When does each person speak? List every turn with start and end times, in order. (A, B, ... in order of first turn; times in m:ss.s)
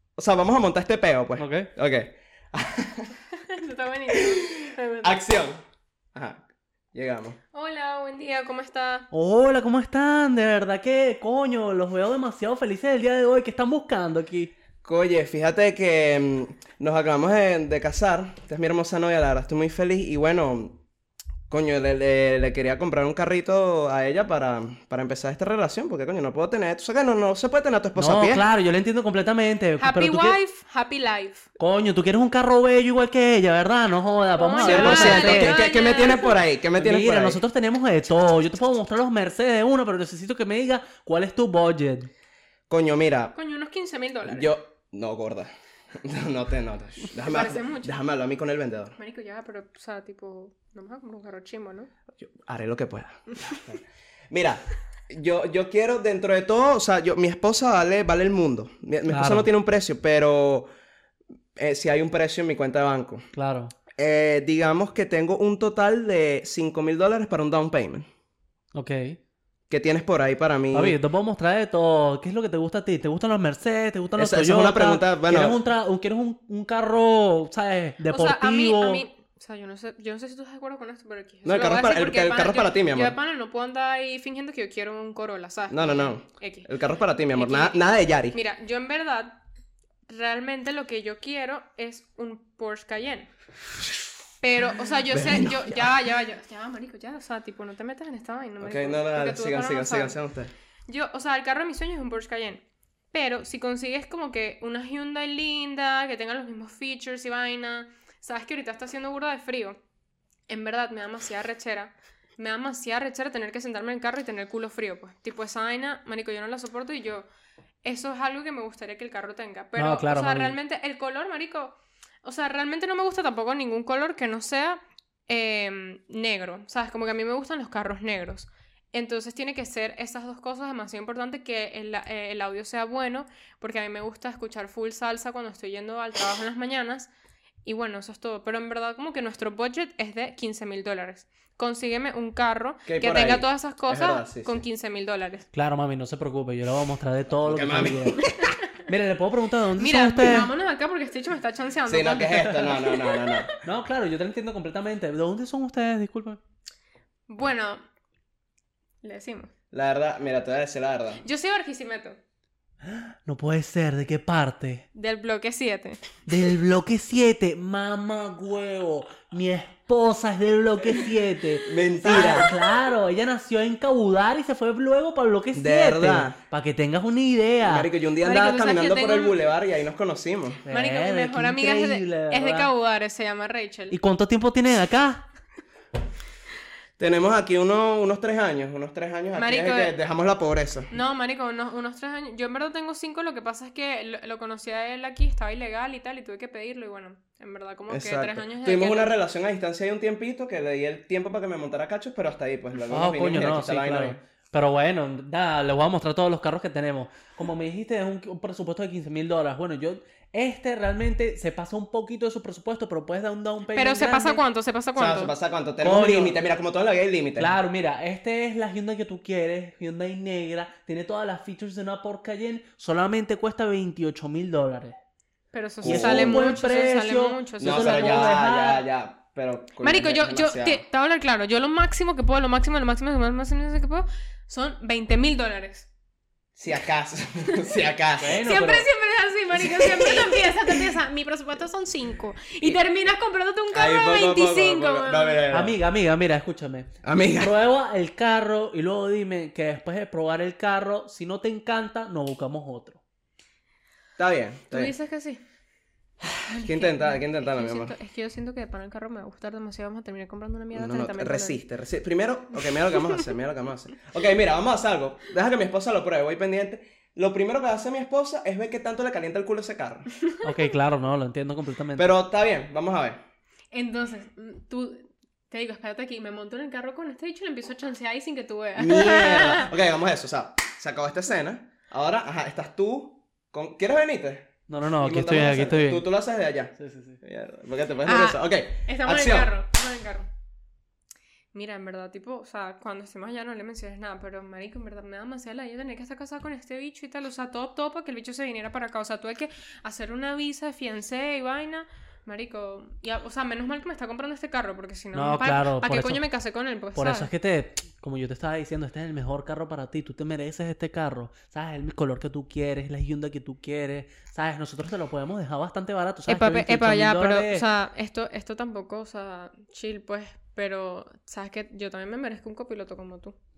0:00.2-0:03.1 A
0:01.4-0:01.7 B
0:03.3-0:05.2 C
0:04.1-0:05.6 A
0:06.2-0:07.4 A
0:07.5-0:09.1 C
0:09.1-0:14.5 B
0:14.8-0:20.8 A
0:21.5-0:28.4 A
0:28.0-0:30.4 B
0:29.8-0:31.5 C
0:31.6-0:35.6 B
0:34.4-0:36.4 C
0:34.6-0:37.4 A
0:36.8-0:42.1 B
0:42.7-0:43.3 A
0:43.3-0:44.5 C
0:44.3-0:49.0 A
0:47.3-0:48.0 C
0:49.0-0:51.9 C
0:52.2-1:00.7 A
0:59.1-0:59.5 B
1:01.6-1:03.3 A
1:03.3-1:03.7 B
1:04.0-1:08.1 A
1:08.7-1:09.2 B
1:09.7-1:11.0 A
1:10.7-1:19.0 B
1:14.2-1:15.6 A
1:18.1-1:26.7 C
1:21.4-1:23.2 A
1:25.7-1:28.4 A
1:27.3-1:27.8 C
1:28.3-1:29.4 C
1:30.1-1:33.3 C
1:34.4-1:40.2 C
1:35.1-1:35.9 A
1:38.6-1:40.5 A
1:40.9-1:49.8 C
1:50.5-1:57.3 C
1:57.8-2:17.1 C
1:59.8-2:00.6 B
2:17.6-2:25.5 C
2:22.9-2:24.6 A
2:25.5-2:28.3 B
2:27.4-2:28.3 A
2:28.2-2:28.6 C
2:28.9-2:30.5 B
2:29.8-2:33.5 C
2:31.9-2:33.6 A
2:33.6-2:36.4 B
2:37.3-2:37.8 C
2:39.0-2:39.5 C
2:39.7-2:41.2 A
2:41.2-2:42.2 C
2:42.9-2:44.8 B
2:45.0-2:46.0 C
2:46.3-2:57.9 B
2:51.7-2:52.5 A
2:52.1-2:52.8 C
2:55.6-2:56.4 A
2:57.6-3:00.6 A
2:58.2-2:59.4 C
3:00.6-3:02.7 B
3:00.7-3:04.0 C
3:03.9-3:05.3 B
3:07.0-3:10.9 A
3:09.4-3:10.0 C
3:10.9-3:19.2 C
3:17.9-3:24.2 A
3:22.9-3:34.4 B
3:33.7-3:35.3 C
3:35.0-3:37.6 A
3:35.8-3:36.4 B
3:37.4-3:45.0 B
3:45.5-3:48.4 C
3:45.8-3:46.6 A
3:45.8-3:48.8 B
3:47.6-3:50.8 A
3:49.8-3:55.9 C
3:56.6-3:58.4 A
3:58.2-3:58.9 B
3:58.4-4:05.4 C
3:59.6-4:00.8 A
4:03.7-4:05.8 A
4:05.5-4:13.0 B
4:07.0-4:07.6 A
4:14.2-4:14.9 A
4:14.7-4:15.4 C
4:16.4-4:18.0 A
4:16.5-4:21.6 C
4:20.7-4:30.1 A
4:22.6-4:23.3 C
4:30.4-4:32.1 B
4:32.0-4:33.2 A
4:33.7-4:39.7 C
4:38.8-4:49.5 A
4:44.7-4:46.0 B
4:46.8-4:47.2 B
4:48.1-4:50.3 C
4:51.5-5:07.3 C
5:05.1-5:06.2 B
5:07.0-5:17.7 B
5:16.3-5:23.4 C